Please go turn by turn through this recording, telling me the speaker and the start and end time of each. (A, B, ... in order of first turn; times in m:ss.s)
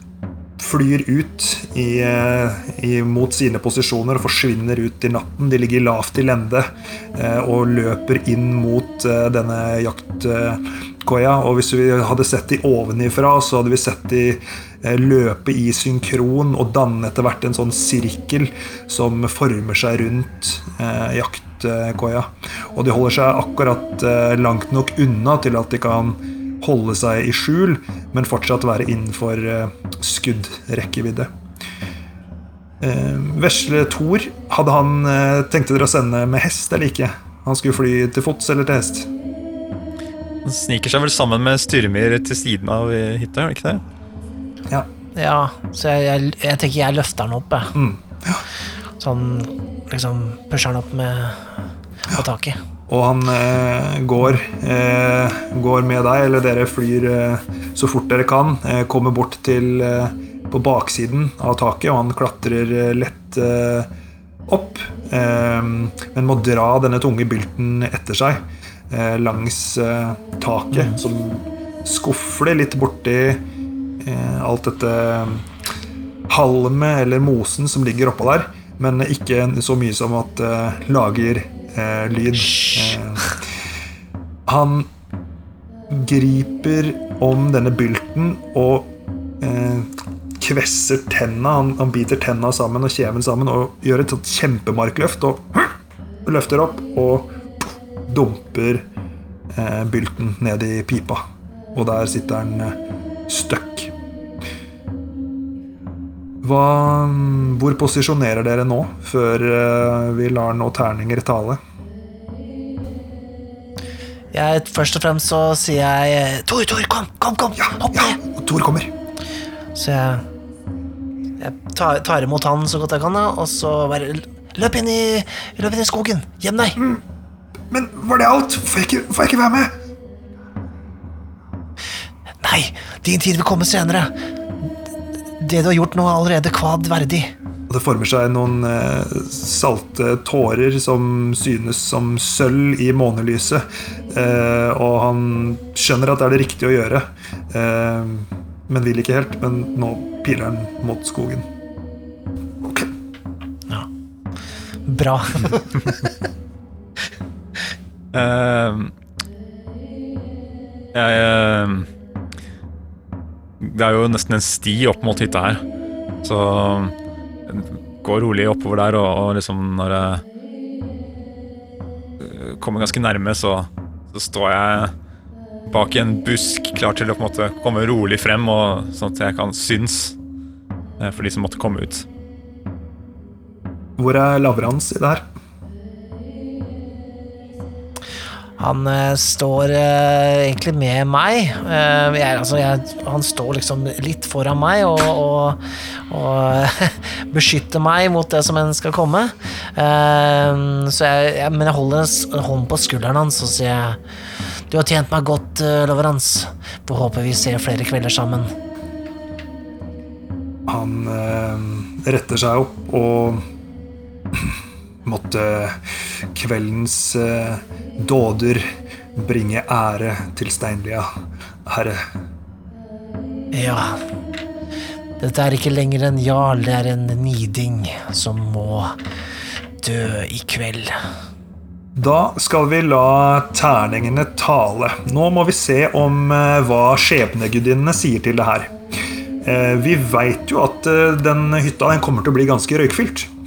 0:00.6-0:31.3 A
0:32.8-0:39.1 A
0:40.4-0:43.8 B
0:45.1-0:47.7 C
0:47.7-0:48.4 A
0:49.0-0:51.5 C
0:52.0-0:52.6 C
0:52.9-1:03.9 A
1:04.5-1:13.4 A
1:14.0-1:15.5 A
1:16.3-1:23.4 A
1:24.4-1:24.9 A
1:25.9-1:35.7 A
1:36.2-1:38.8 A
1:39.5-1:41.2 A
1:41.7-1:42.8 A
1:43.3-1:43.9 A
1:46.4-1:51.6 A
1:54.3-1:58.2 C
1:57.6-1:58.9 A
1:59.7-2:00.2 C
2:01.4-2:06.8 C
2:06.8-2:07.0 A
2:07.7-2:09.7 A
2:12.4-2:14.1 C
2:15.4-2:17.3 C
2:17.7-2:31.5 A
2:32.6-2:32.9 A
2:34.8-2:36.1 C
2:38.1-2:38.9 B
2:40.9-2:41.9 B
2:43.6-2:45.6 B
2:46.2-2:46.9 B
2:47.5-2:50.2 B
2:52.2-2:54.9 B
2:55.7-3:00.1 B
3:01.0-3:02.0 B
3:04.0-3:05.2 A
3:08.6-3:24.0 C
3:24.7-3:28.5 C
3:30.7-3:33.4 A
3:34.3-3:41.1 A
3:41.6-3:42.0 A
3:43.5-3:44.0 C
3:45.2-3:49.0 C
3:49.8-3:50.9 C
3:51.9-3:58.7 A
3:59.4-4:03.3 A